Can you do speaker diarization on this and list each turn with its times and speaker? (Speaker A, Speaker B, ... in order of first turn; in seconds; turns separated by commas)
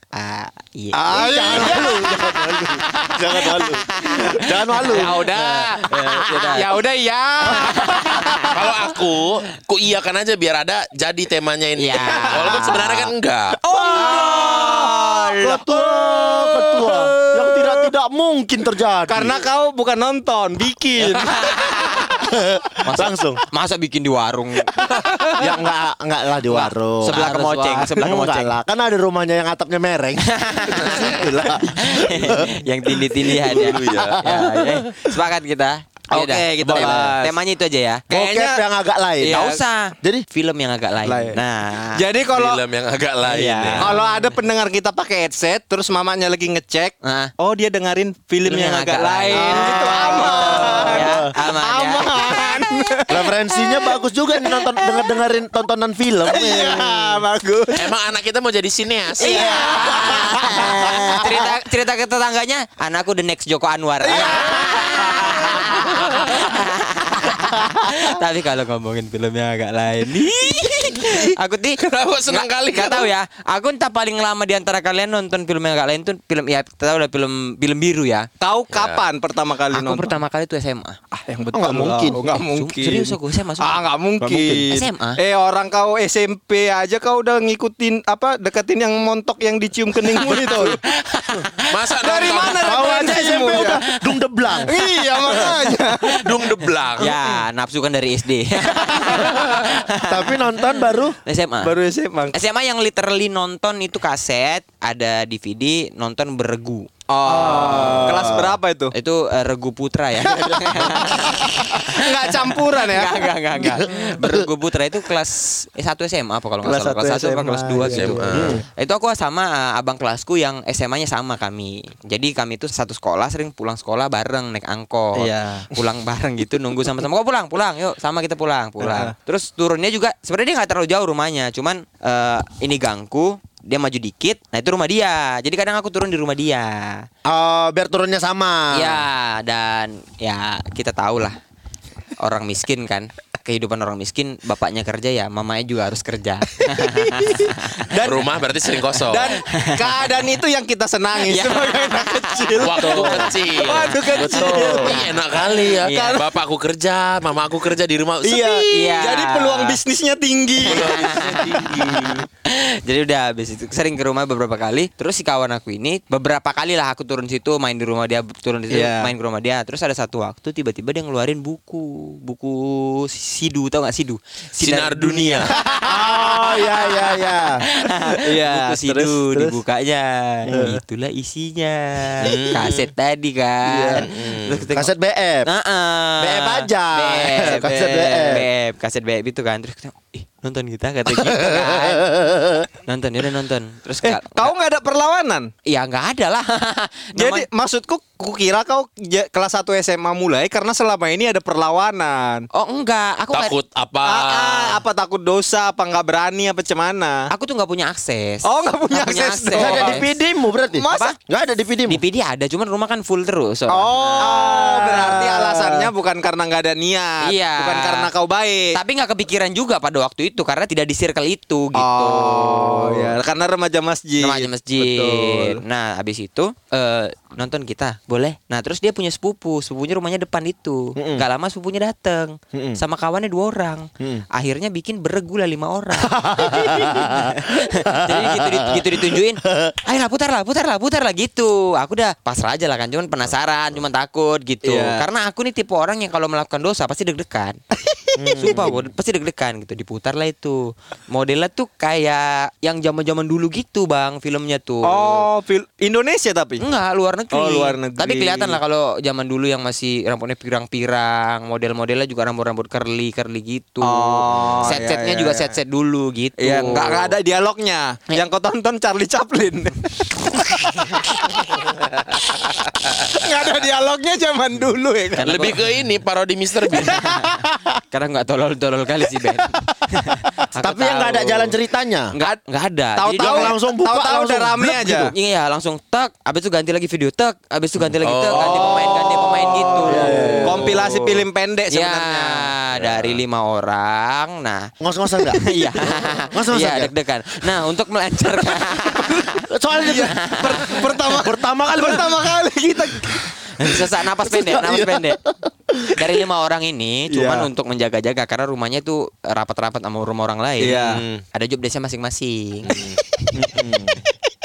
Speaker A: 0.1-2.0, Speaker B: 0.9-2.2, Speaker C: 1.1-5.2, Speaker A: 3.0-6.8, Speaker B: 4.1-8.0, Speaker C: 7.5-8.5, Speaker A: 7.5-8.5, Speaker D: 8.4-13.6, Speaker A: 11.8-13.1, Speaker B: 12.1-12.5, Speaker B: 13.6-17.9, Speaker C: 13.7-19.4, Speaker B: 19.1-21.5, Speaker A: 21.0-22.1, Speaker C: 22.1-23.4, Speaker A: 22.9-24.9, Speaker B: 25.1-25.5, Speaker C: 25.4-27.2, Speaker A: 26.5-28.6, Speaker B: 27.1-28.0, Speaker C: 28.0-34.8, Speaker A: 30.3-38.0, Speaker D: 33.4-34.5, Speaker B: 36.1-37.3, Speaker C: 36.6-37.2, Speaker B: 38.1-38.6, Speaker C: 38.1-39.5, Speaker B: 39.2-39.6, Speaker A: 39.3-42.0, Speaker B: 41.1-41.4, Speaker B: 41.9-42.6, Speaker D: 42.3-43.9, Speaker A: 43.3-44.0, Speaker B: 43.8-55.2, Speaker A: 47.0-47.3, Speaker A: 48.5-52.6, Speaker C: 49.3-51.3, Speaker C: 53.1-57.2, Speaker B: 56.3-58.0, Speaker D: 57.8-59.7, Speaker B: 59.2-61.0, Speaker A: 59.2-78.3, Speaker C: 59.2-61.5, Speaker B: 64.1-65.6, Speaker C: 64.2-65.3, Speaker D: 71.8-73.1, Speaker B: 78.4-80.2, Speaker D: 78.7-79.1, Speaker A: 79.7-81.0, Speaker B: 81.1-90.8, Speaker C: 81.5-82.2, Speaker A: 82.2-83.8, Speaker C: 84.2-84.7, Speaker A: 84.5-85.2, Speaker C: 90.2-90.8, Speaker A: 90.9-94.1, Speaker D: 91.7-92.8, Speaker B: 92.0-93.8, Speaker C: 92.6-94.7, Speaker B: 94.6-96.3, Speaker A: 94.7-96.2, Speaker C: 95.3-95.7, Speaker D: 96.1-97.2, Speaker A: 97.0-100.7, Speaker D: 99.3-99.8, Speaker C: 100.1-101.2, Speaker A: 101.2-101.8, Speaker B: 101.6-102.3, Speaker A: 102.3-108.4, Speaker B: 107.1-108.9, Speaker C: 107.3-108.6, Speaker A: 108.9-137.1, Speaker C: 110.5-111.0, Speaker B: 110.8-113.4, Speaker C: 113.6-114.5, Speaker B: 116.6-118.6, Speaker D: 117.9-118.6, Speaker C: 118.3-118.6, Speaker B: 125.2-125.7, Speaker B: 128.8-129.1, Speaker C: 137.3-139.0, Speaker A: 138.7-141.4, Speaker A: 142.2-148.0, Speaker B: 146.7-156.3, Speaker D: 148.0-149.4, Speaker A: 149.5-150.1, Speaker A: 151.3-153.2, Speaker D: 152.6-159.0, Speaker C: 152.8-153.3, Speaker A: 154.2-156.2, Speaker C: 154.4-154.9, Speaker B: 158.2-161.0, Speaker A: 158.7-159.8, Speaker D: 160.6-162.2, Speaker A: 160.6-176.2, Speaker B: 161.7-162.2, Speaker B: 168.7-169.1, Speaker D: 174.6-175.6, Speaker B: 175.6-177.2, Speaker C: 175.8-177.6, Speaker A: 177.7-184.9, Speaker B: 178.1-179.6, Speaker B: 180.5-180.8, Speaker C: 180.5-180.8, Speaker D: 182.2-182.9, Speaker B: 183.7-184.1, Speaker D: 184.0-184.7, Speaker C: 184.7-185.5, Speaker A: 185.4-192.1, Speaker C: 186.2-188.4, Speaker B: 187.6-188.4, Speaker C: 191.1-192.7, Speaker A: 192.9-194.5, Speaker B: 194.0-195.5, Speaker A: 195.7-197.5, Speaker B: 197.2-202.5, Speaker A: 202.5-203.6, Speaker D: 203.3-204.8, Speaker B: 204.0-207.3, Speaker A: 207.3-210.1, Speaker B: 208.4-210.1, Speaker C: 209.5-212.0, Speaker B: 210.7-211.1, Speaker A: 211.9-215.3, Speaker B: 213.7-218.8, Speaker C: 214.0-215.9, Speaker A: 217.2-218.1, Speaker A: 218.7-223.2, Speaker B: 221.8-225.6, Speaker A: 224.2-247.6, Speaker C: 231.0-231.2, Speaker C: 234.0-234.3, Speaker C: 236.0-239.7, Speaker B: 244.6-245.1, Speaker C: 248.2-248.8, Speaker A: 248.4-255.3, Speaker B: 254.8-256.6, Speaker A: 256.6-267.1, Speaker B: 257.3-258.6, Speaker B: 263.8-265.6, Speaker B: 266.4-271.5, Speaker B: 272.9-275.6, Speaker A: 275.2-275.6, Speaker D: 275.2-277.1, Speaker B: 276.7-277.4, Speaker A: 276.7-281.5, Speaker C: 280.6-282.1, Speaker A: 282.2-283.5, Speaker B: 283.0-285.1, Speaker C: 283.2-285.1, Speaker A: 285.0-294.7, Speaker D: 288.0-289.0, Speaker B: 288.3-292.5, Speaker C: 289.8-290.8, Speaker D: 292.8-293.2, Speaker C: 294.8-295.4, Speaker A: 295.4-300.8, Speaker C: 296.3-296.9, Speaker C: 299.4-300.2, Speaker B: 299.8-303.3, Speaker C: 300.7-302.4, Speaker A: 303.6-305.2, Speaker C: 303.7-306.2, Speaker A: 305.9-313.7, Speaker B: 307.1-307.5, Speaker B: 310.6-311.0, Speaker D: 310.7-311.2, Speaker D: 312.7-313.0, Speaker C: 313.3-314.0